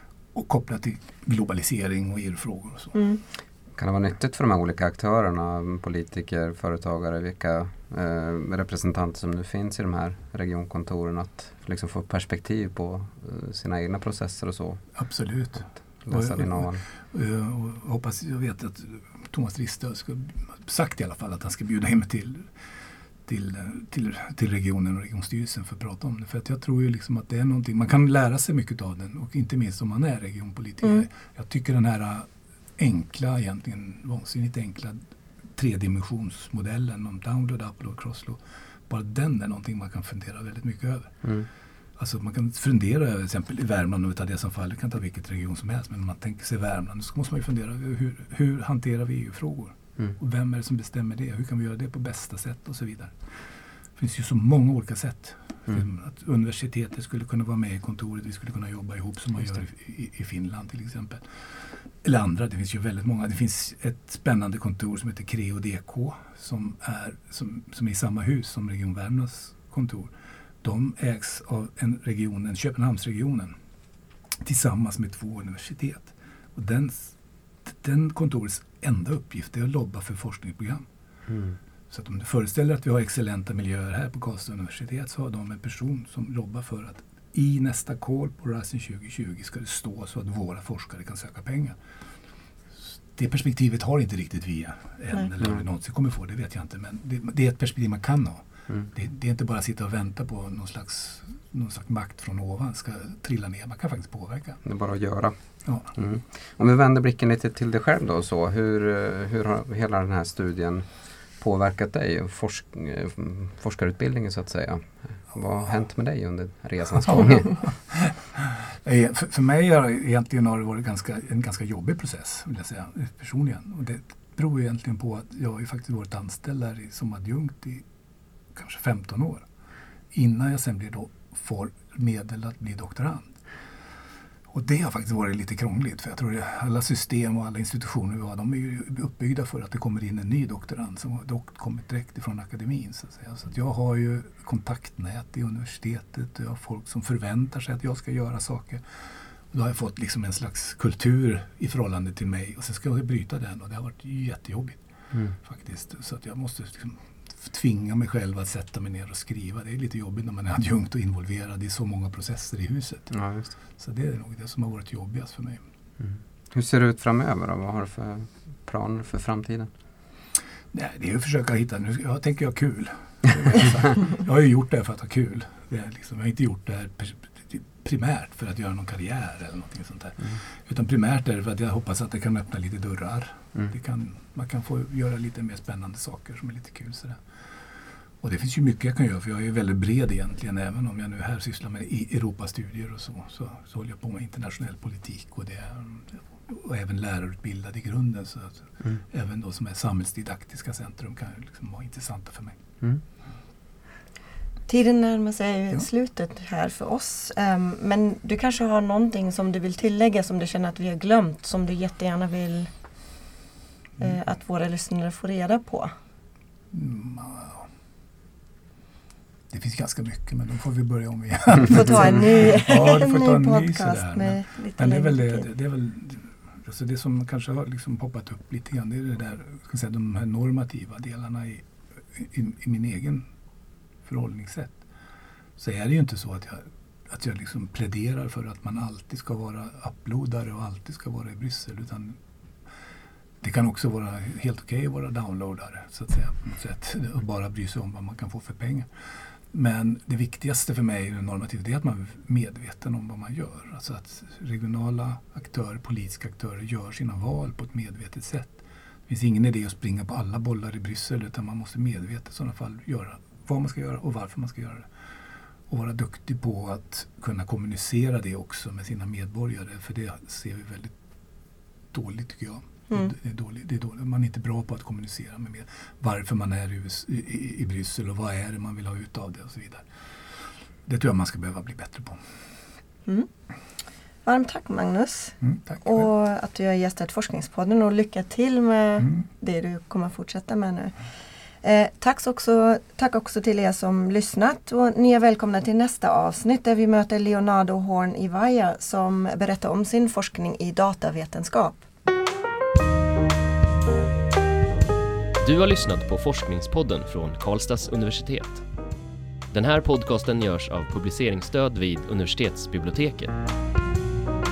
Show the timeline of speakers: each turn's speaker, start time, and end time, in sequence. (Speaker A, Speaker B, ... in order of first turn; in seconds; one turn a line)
Speaker A: 0.3-3.0
Speaker B: 3.0-3.2
Speaker C: 3.8-14.9
Speaker A: 14.9-22.5
Speaker C: 16.1-16.8
Speaker A: 23.3-35.0
Speaker A: 35.5-41.2
Speaker A: 42.0-53.3
Speaker A: 54.0-73.5
Speaker A: 74.4-80.9
Speaker C: 81.3-81.6
Speaker A: 81.9-91.8
Speaker A: 93.1-104.6
Speaker C: 104.6-105.3
Speaker A: 105.7-105.9
Speaker C: 105.9-117.7
Speaker A: 117.2-127.8
Speaker A: 128.6-129.4
Speaker A: 130.1-133.3
Speaker A: 134.5-154.8
Speaker A: 155.3-163.1
Speaker C: 163.1-163.5
Speaker A: 163.8-165.6
Speaker C: 166.0-169.7
Speaker A: 170.7-187.2
Speaker A: 188.2-202.6
Speaker B: 204.7-212.7
Speaker B: 214.0-215.9
Speaker A: 216.7-217.7
Speaker A: 219.5-233.3
Speaker B: 221.7-225.5
Speaker A: 234.1-234.8
Speaker A: 235.6-242.2
Speaker A: 243.4-248.9
Speaker A: 249.5-264.9
Speaker A: 265.7-270.9
Speaker A: 271.9-279.9
Speaker A: 280.9-282.2
Speaker B: 284.2-291.0
Speaker A: 285.4-286.1
Speaker B: 291.6-301.9
Speaker D: 305.4-308.6
Speaker D: 309.5-313.3